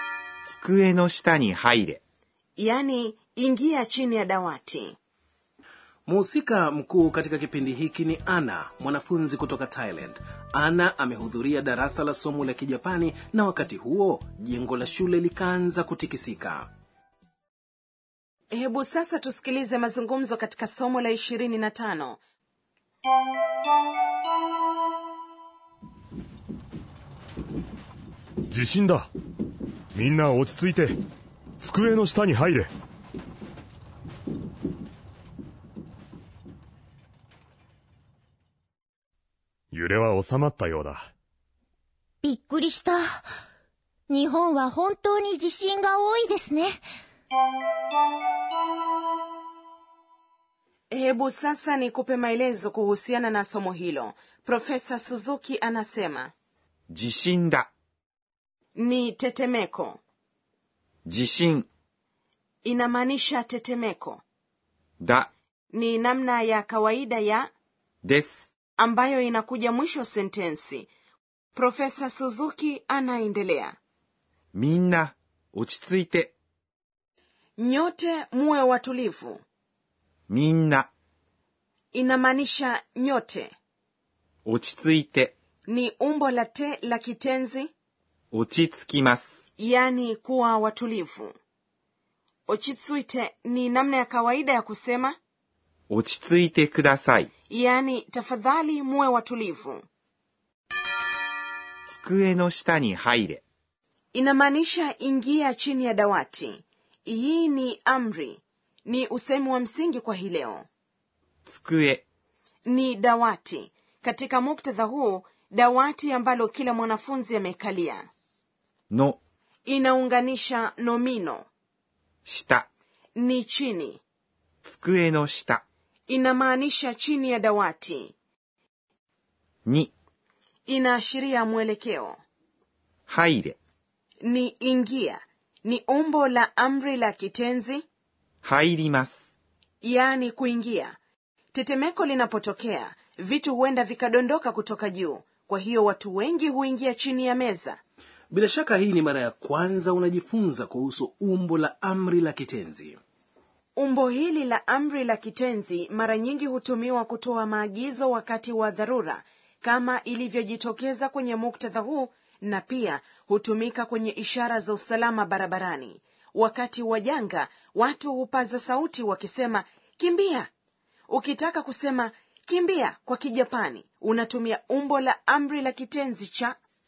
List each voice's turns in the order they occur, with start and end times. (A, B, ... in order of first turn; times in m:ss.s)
0:00.5-0:02.0 A
0:02.6-0:05.0 B
0:06.1-0:16.7 C
0:18.5-0:22.2 B
0:28.5-0:29.1 D
0:30.0-0:30.9 D
0:31.6-0:32.7 D
0:39.7-0:41.1 D
0:42.2-0:43.2 E
0:44.1-0:46.8 E
0:50.9-0:56.3 B
0:56.9-0:57.7 A
0:58.8-1:00.0 B
1:01.1-1:01.7 A
1:02.6-1:04.2 B
1:05.0-1:05.3 A
1:05.7-1:07.5 B
1:08.0-1:08.5 A
1:08.8-1:10.9 B
1:11.6-1:13.8 B
1:14.5-1:16.3 A
1:17.6-1:19.4 B
1:20.3-1:20.9 A
1:21.9-1:23.5 B
1:24.4-1:25.3 A
1:25.7-1:27.7 B
1:28.3-1:29.4 A
1:29.6-1:31.3 B
1:32.5-1:35.2 B
1:35.9-1:37.3 A
1:37.5-1:39.8 B
1:41.9-1:43.4 A
1:44.1-1:50.6 B
1:51.4-1:52.0 A
1:52.7-1:58.1 B
1:58.9-1:59.2 A
1:59.7-2:01.4 B
2:02.2-2:02.7 A
2:03.2-2:04.0 B
2:04.6-2:05.6 A
2:06.1-2:08.1 B
2:09.7-2:09.9 A
2:10.7-2:12.2 B
2:13.1-2:13.6 A
2:14.2-2:17.8 B
2:18.4-2:19.3 A
2:19.8-2:21.0 B
2:21.5-2:27.8 B
2:28.3-2:33.0 C
2:33.8-2:50.5 B
2:51.1-2:56.6 B